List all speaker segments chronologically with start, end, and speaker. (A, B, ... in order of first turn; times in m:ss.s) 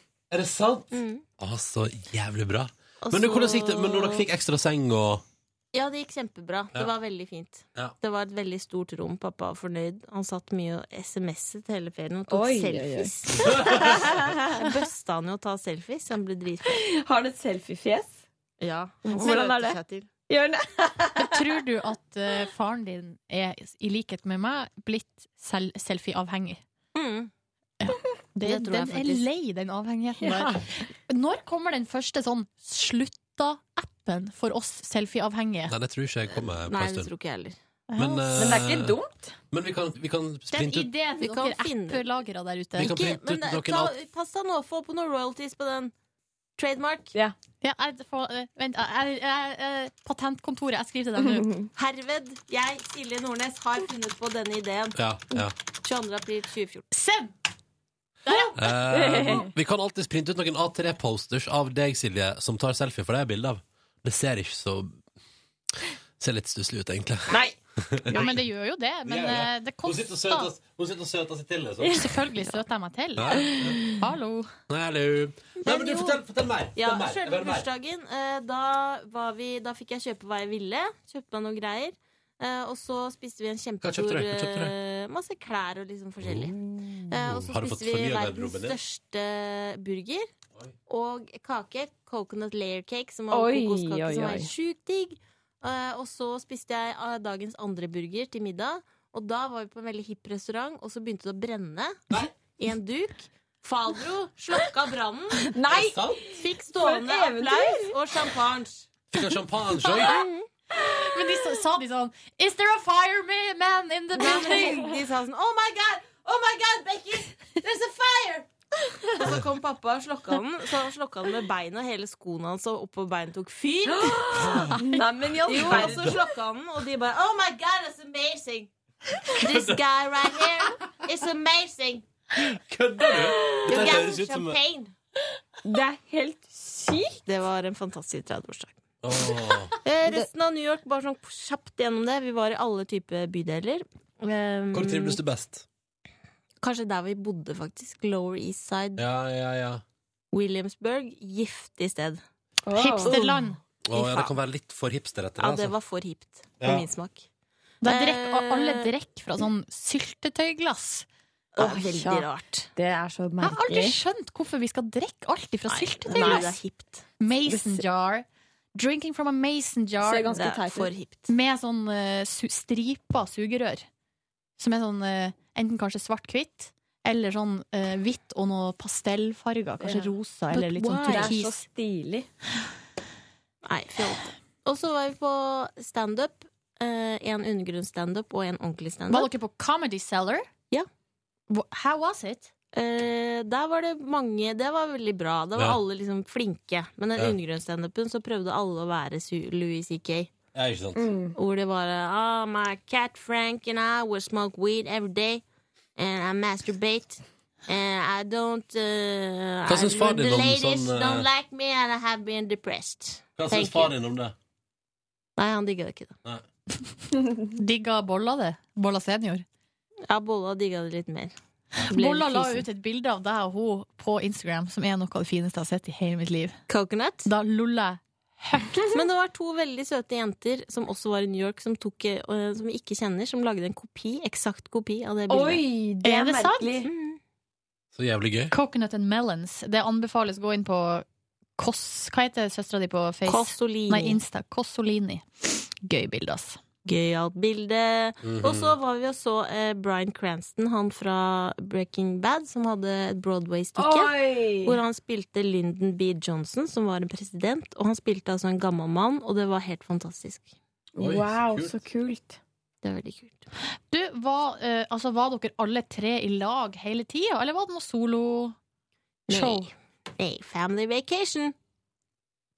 0:00.3-0:05.2 A
0:00.9-0:01.2 B
0:03.0-0:04.2 B
0:05.7-0:16.8 B
0:12.3-0:14.6 C
0:13.4-0:13.9 A
0:16.6-0:18.2 C
0:18.6-0:20.1 B
0:19.0-0:19.8 C
0:20.3-0:21.5 C
0:21.2-0:26.6 D
0:27.0-0:27.3 B
0:27.8-0:35.7 D
0:28.4-0:29.2 B
0:30.2-0:30.6 C
0:35.7-0:37.1 A
0:36.4-0:37.6 B
0:37.9-0:38.6 D
0:38.0-0:39.0 A
0:38.4-0:39.3 C
0:39.5-0:40.9 A
0:40.5-0:42.9 D
0:41.2-0:42.0 B
0:42.8-0:43.9 A
0:42.8-0:45.9 B
0:46.6-0:47.2 B
0:47.6-0:51.5 D
0:51.3-0:51.7 C
0:51.8-0:55.0 B
0:55.0-0:55.5 A
0:55.8-0:56.9 B
0:56.9-0:57.3 D
0:58.3-0:58.6 D
0:58.6-1:05.0 A
0:58.9-0:59.5 C
1:06.2-1:08.3 A
1:07.3-1:07.6 C
1:08.1-1:10.5 D
1:09.1-1:12.1 A
1:11.9-1:14.5 D
1:13.2-1:13.8 A
1:13.5-1:13.9 C
1:14.7-1:17.7 A
1:15.6-1:16.2 B
1:16.8-1:26.6 B
1:23.8-1:24.7 A
1:26.2-1:26.5 A
1:27.1-1:28.8 A
1:27.1-1:30.3 B
1:30.9-1:45.6 B
1:33.3-1:34.5 C
1:45.4-1:48.0 C
1:45.7-1:46.2 A
1:46.4-1:48.9 B
1:49.1-1:50.2 A
1:49.9-1:50.5 B
1:50.8-1:54.8 D
1:54.2-1:58.5 B
1:54.2-1:55.0 C
1:59.1-2:04.8 B
2:04.0-2:06.2 C
2:04.4-2:04.7 A
2:04.7-2:05.0 D
2:05.4-2:08.7 B
2:05.6-2:06.2 A
2:09.3-2:12.0 B
2:09.4-2:09.8 A
2:12.4-2:14.6 A
2:13.2-2:13.7 C
2:13.7-2:14.9 B
2:15.6-2:17.2 C
2:17.3-2:18.8 B
2:19.0-2:19.7 A
2:19.8-2:25.2 B
2:24.7-2:25.6 A
2:26.6-2:29.0 B
2:29.0-2:29.8 A
2:30.3-2:32.2 B
2:32.6-2:33.2 C
2:32.8-2:33.6 D
2:33.9-2:35.7 A
2:33.9-2:34.3 B
2:35.4-2:37.3 B
2:37.8-2:41.1 D
2:37.8-2:38.9 B
2:41.6-2:42.7 B
2:41.6-2:44.0 C
2:43.4-2:46.6 D
2:45.7-2:47.0 B
2:46.1-2:46.5 C
2:47.2-2:50.4 D
2:47.5-2:47.8 C
2:50.0-2:50.9 C
2:50.3-2:51.3 B
2:51.3-2:53.9 D
2:54.6-3:01.6 D
2:59.8-3:00.1 C
3:00.5-3:01.4 B
3:01.0-3:02.3 C
3:03.6-3:09.3 B
3:09.1-3:10.5 D
3:11.5-3:12.5 D
3:12.7-3:20.3 B
3:20.5-3:21.1 A
3:21.0-3:21.4 C
3:21.4-3:25.4 B
3:26.0-3:33.9 B
3:29.7-3:31.3 A
3:33.4-3:34.4 A
3:35.4-3:36.2 B
3:37.5-3:39.4 D
3:40.1-3:41.3 B
3:41.9-3:46.6 D
3:41.9-3:42.7 B
3:46.7-3:47.3 B
3:47.2-3:48.9 D
3:48.9-3:55.6 B
3:55.3-3:56.9 C
3:56.0-3:56.7 D
3:56.8-3:57.2 B
3:57.9-3:58.5 A
3:58.5-4:01.0 D
4:01.6-4:06.6 D
4:03.3-4:04.2 B
4:06.8-4:20.5 B
4:08.2-4:08.8 A
4:13.8-4:14.8 C
4:21.0-4:22.4 C
4:21.0-4:21.7 A
4:22.8-4:23.4 B
4:23.9-4:28.6 D
4:29.3-4:31.6 B
4:29.3-4:29.7 D